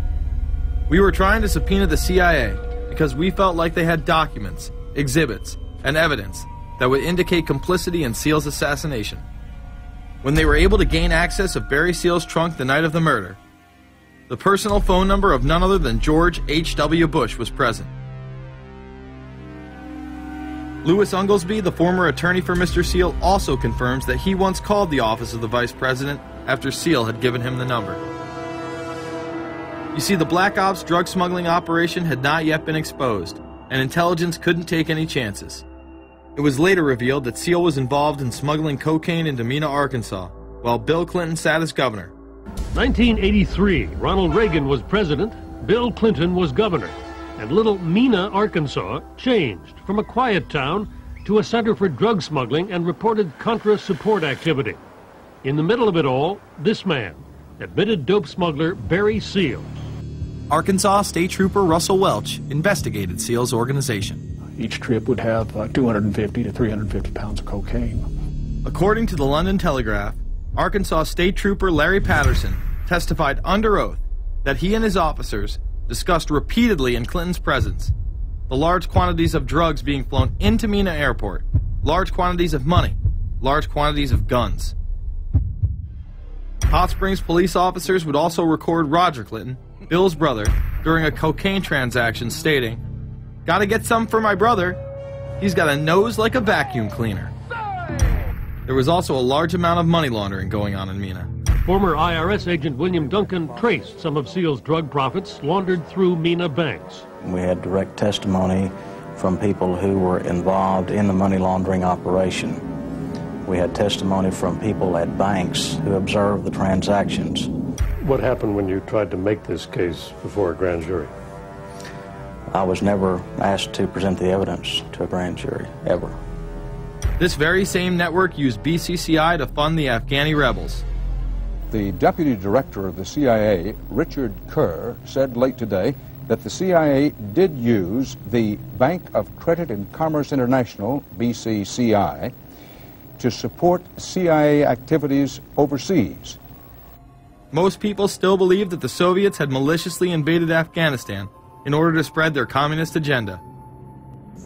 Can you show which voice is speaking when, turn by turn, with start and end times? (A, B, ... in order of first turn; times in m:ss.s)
0:00.9-0:09.2 A
0:10.2-0:13.4 A
0:14.3-0:17.9 A
0:20.8-0:28.0 A
0:29.9-0:35.6 A
0:36.4-0:42.1 A
0:42.7-0:54.8 B
0:55.4-0:59.7 B
1:00.5-1:04.2 A
1:04.6-1:08.0 C
1:08.6-1:17.9 A
1:18.5-1:24.7 A
1:26.7-1:32.8 A
1:33.4-1:34.8 A
1:35.4-1:37.3 A
1:38.7-1:41.3 A
1:41.6-1:47.0 B
1:47.2-1:52.6 D
1:53.4-1:57.5 D
1:58.6-1:59.1 B
1:59.8-2:01.0 B
2:02.5-2:06.2 D
2:07.2-2:10.8 A
2:11.7-2:22.3 E
2:23.2-2:26.4 E
2:27.5-2:33.4 A